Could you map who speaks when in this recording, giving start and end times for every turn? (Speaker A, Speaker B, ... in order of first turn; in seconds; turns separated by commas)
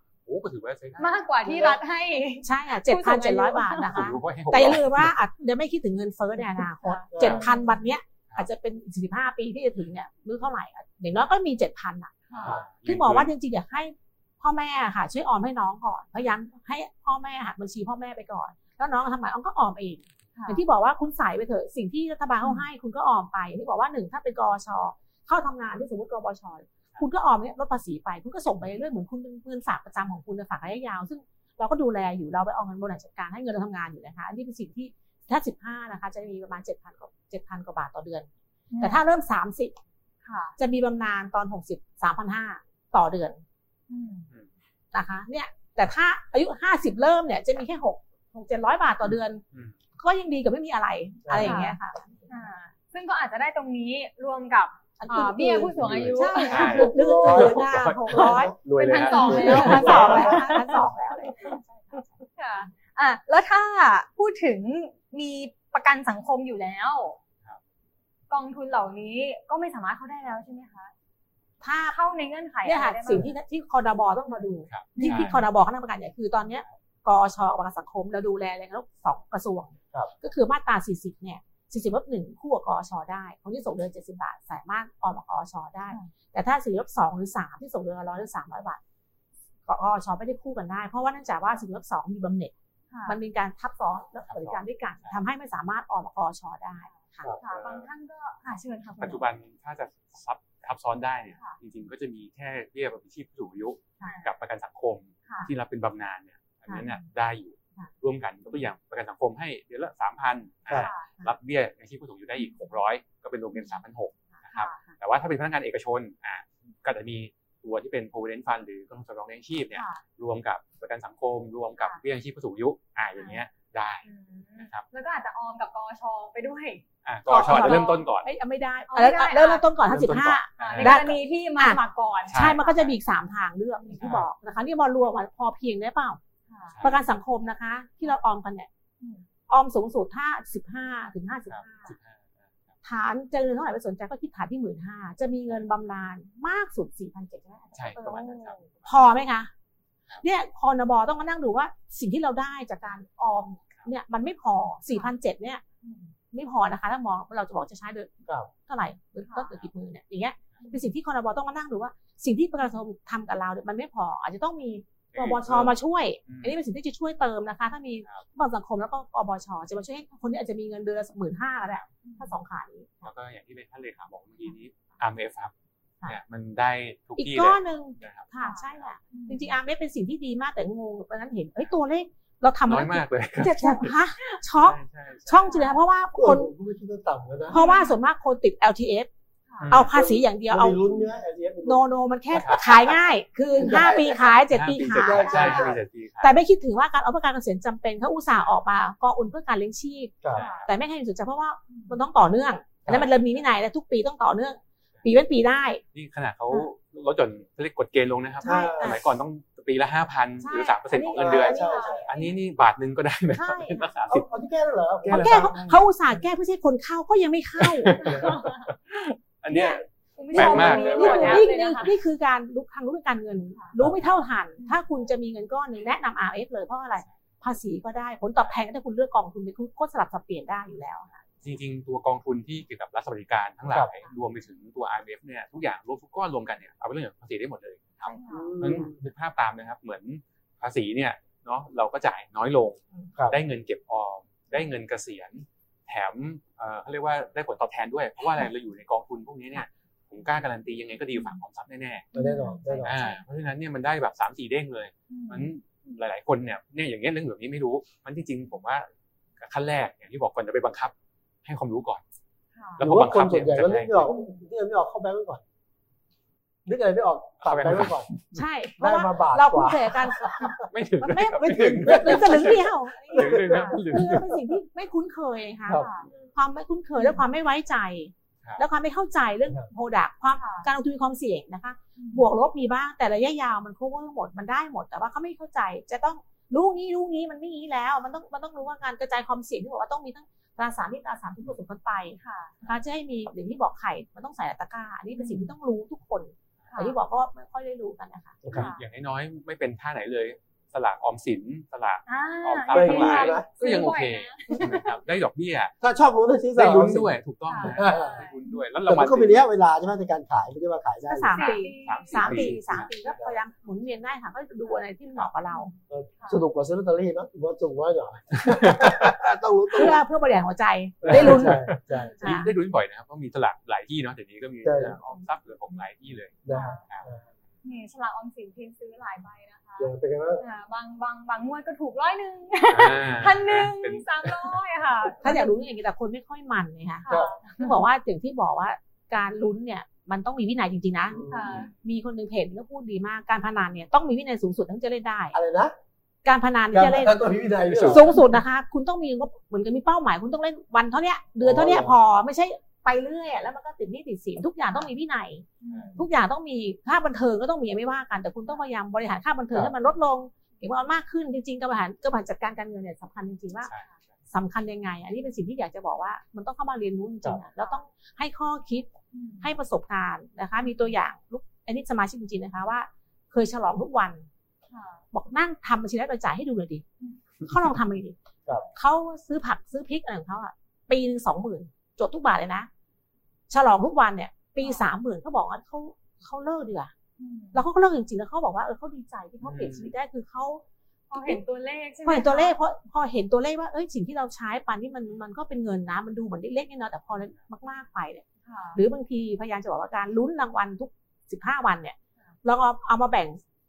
Speaker A: 0.3-1.2, Speaker B: 1.0-4.1, Speaker C: 1.4-1.8, Speaker D: 2.4-38.3, Speaker A: 3.9-5.2, Speaker B: 6.8-7.6, Speaker C: 7.1-7.5, Speaker B: 12.3-12.6, Speaker A: 12.3-13.3, Speaker B: 20.4-20.6, Speaker B: 22.4-22.7, Speaker B: 38.7-39.0, Speaker D: 38.8-39.7, Speaker B: 40.2-40.5, Speaker D: 40.6-43.4, Speaker B: 43.9-44.3, Speaker D: 44.9-49.4, Speaker D: 50.0-52.1, Speaker C: 51.3-51.7, Speaker B: 51.4-51.8, Speaker B: 52.3-56.9, Speaker D: 55.0-62.2, Speaker A: 55.8-60.3, Speaker C: 56.5-60.5, Speaker B: 58.8-60.9, Speaker B: 62.4-67.2, Speaker B: 68.3-70.9, Speaker D: 71.6-72.0, Speaker B: 71.9-73.3, Speaker D: 72.6-88.8, Speaker A: 74.7-75.3, Speaker B: 75.0-75.4, Speaker D: 89.7-92.5, Speaker B: 92.9-93.2, Speaker D: 93.1-97.3, Speaker A: 94.3-95.2, Speaker B: 97.4-99.2, Speaker A: 97.5-97.9, Speaker A: 99.0-124.0, Speaker B: 104.0-104.3, Speaker B: 110.8-111.1, Speaker D: 114.3-114.9, Speaker B: 114.5-114.8, Speaker B: 119.7-120.0, Speaker B: 123.2-123.4, Speaker B: 124.0-128.0, Speaker A: 127.0-128.3, Speaker D: 127.3-136.2, Speaker B: 128.9-129.7, Speaker A: 129.9-131.0, Speaker B: 130.6-132.6, Speaker A: 132.3-132.9, Speaker A: 133.9-134.3, Speaker B: 136.5-136.8, Speaker A: 136.7-137.1, Speaker D: 136.8-138.7, Speaker B: 139.0-139.3, Speaker D: 139.5-141.9, Speaker A: 141.5-142.5, Speaker D: 142.8-149.5, Speaker A: 147.8-149.0, Speaker D: 150.2-155.6, Speaker B: 155.8-156.1, Speaker D: 156.3-158.1, Speaker D: 158.6-173.1, Speaker A: 165.1-165.8, Speaker A: 166.3-166.6, Speaker B: 172.0-172.4, Speaker A: 173.0-175.5, Speaker A: 176.1-178.9, Speaker D: 177.2-186.5, Speaker B: 178.4-179.6, Speaker A: 182.7-184.0, Speaker A: 184.6-185.5, Speaker B: 185.3-185.8, Speaker C: 186.2-187.6, Speaker D: 187.5-189.1, Speaker B: 187.5-188.0, Speaker A: 189.6-189.9, Speaker D: 189.7-190.8, Speaker C: 189.7-191.9, Speaker D: 191.6-205.8, Speaker A: 192.3-192.8, Speaker C: 193.6-195.8, Speaker A: 194.5-196.3, Speaker B: 195.2-195.7, Speaker A: 200.3-200.7, Speaker B: 200.3-200.7, Speaker B: 201.7-201.9, Speaker A: 205.9-214.2, Speaker D: 208.4-209.0, Speaker C: 208.4-209.0, Speaker D: 210.4-212.3, Speaker C: 211.2-212.1, Speaker B: 211.6-212.3, Speaker D: 213.3-213.9, Speaker C: 214.1-215.8, Speaker A: 215.0-215.8, Speaker D: 215.1-218.1, Speaker A: 217.6-221.5, Speaker B: 218.0-218.7, Speaker D: 219.5-219.8, Speaker B: 220.2-221.9, Speaker D: 220.3-231.2, Speaker C: 220.4-221.4, Speaker A: 231.4-252.1, Speaker D: 238.1-238.5, Speaker B: 238.1-238.5, Speaker C: 238.3-238.9, Speaker B: 252.1-252.6, Speaker D: 252.2-253.2, Speaker C: 252.5-253.0, Speaker A: 252.8-258.9, Speaker B: 255.1-255.5, Speaker A: 259.4-260.9, Speaker A: 261.4-262.0, Speaker B: 262.6-262.8, Speaker A: 262.8-264.1, Speaker C: 262.8-265.4, Speaker B: 264.1-264.4, Speaker C: 266.7-268.1, Speaker A: 267.4-268.4, Speaker D: 268.3-298.4, Speaker C: 268.8-270.7, Speaker A: 270.6-274.3, Speaker C: 271.2-274.3, Speaker C: 275.7-275.9, Speaker B: 275.7-276.1, Speaker B: 280.4-280.7, Speaker B: 282.0-282.3, Speaker B: 292.2-292.6, Speaker B: 295.1-295.5, Speaker B: 296.7-297.0, Speaker C: 298.4-298.7, Speaker A: 298.5-305.7, Speaker B: 298.5-298.9, Speaker B: 302.1-304.8, Speaker C: 302.7-303.5, Speaker C: 305.8-307.1, Speaker A: 306.6-309.4, Speaker B: 307.4-308.6, Speaker C: 307.7-308.2, Speaker C: 308.9-311.6, Speaker D: 311.1-315.7, Speaker B: 311.3-312.5, Speaker A: 311.8-312.9, Speaker C: 312.3-313.4, Speaker B: 315.5-316.4, Speaker C: 315.9-320.0, Speaker A: 318.4-318.9, Speaker D: 319.7-322.5, Speaker C: 321.0-322.2, Speaker A: 321.1-326.4, Speaker C: 324.6-325.0, Speaker C: 326.4-327.2, Speaker B: 326.5-326.8, Speaker B: 327.6-335.5, Speaker C: 329.8-330.4, Speaker A: 332.7-334.6, Speaker D: 335.2-341.2, Speaker B: 337.0-337.8, Speaker C: 337.1-337.4, Speaker C: 341.1-341.6, Speaker B: 341.3-341.7, Speaker A: 341.5-341.7, Speaker D: 341.8-345.4, Speaker C: 345.3-345.7, Speaker D: 346.2-363.7, Speaker C: 346.7-348.2, Speaker A: 347.6-348.2, Speaker C: 351.4-351.9, Speaker B: 355.6-356.1, Speaker A: 355.7-356.0, Speaker A: 363.6-363.9, Speaker D: 364.3-368.9, Speaker B: 369.1-369.5, Speaker D: 369.4-374.3, Speaker B: 374.7-375.1, Speaker D: 375.1-376.8, Speaker D: 377.4-378.2, Speaker D: 378.7-382.7, Speaker D: 383.5-386.9, Speaker B: 384.6-384.9, Speaker B: 387.2-387.6, Speaker D: 387.5-390.6, Speaker A: 389.4-389.9, Speaker B: 391.1-392.6, Speaker D: 391.2-391.4, Speaker D: 392.0-403.4, Speaker B: 398.4-398.8